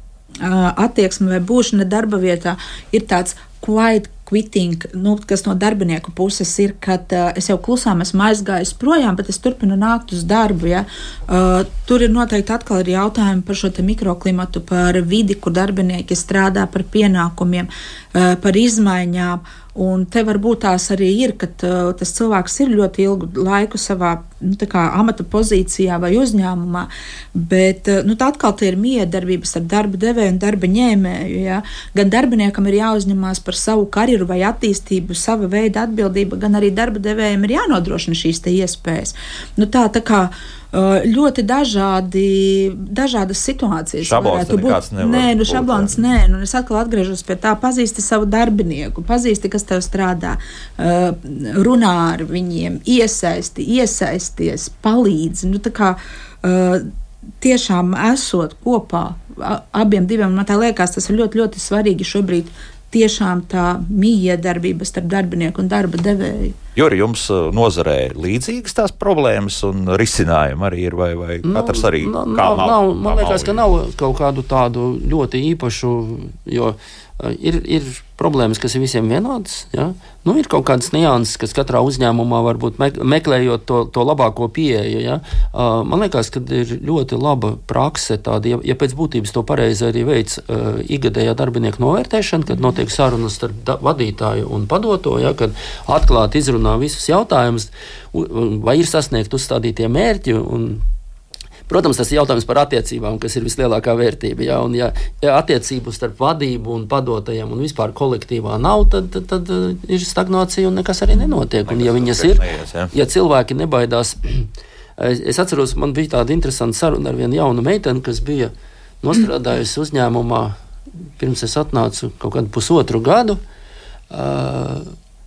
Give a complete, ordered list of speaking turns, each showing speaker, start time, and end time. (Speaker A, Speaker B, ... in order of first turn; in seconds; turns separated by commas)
Speaker A: 0.4-56.9, Speaker B: 44.0-46.0, Speaker A: 57.4-66.5, Speaker B: 66.8-73.6, Speaker C: 71.4-100.8, Speaker C: 101.7-120.5, Speaker B: 111.7-112.9, Speaker C: 121.2-123.4, Speaker C: 124.1-124.9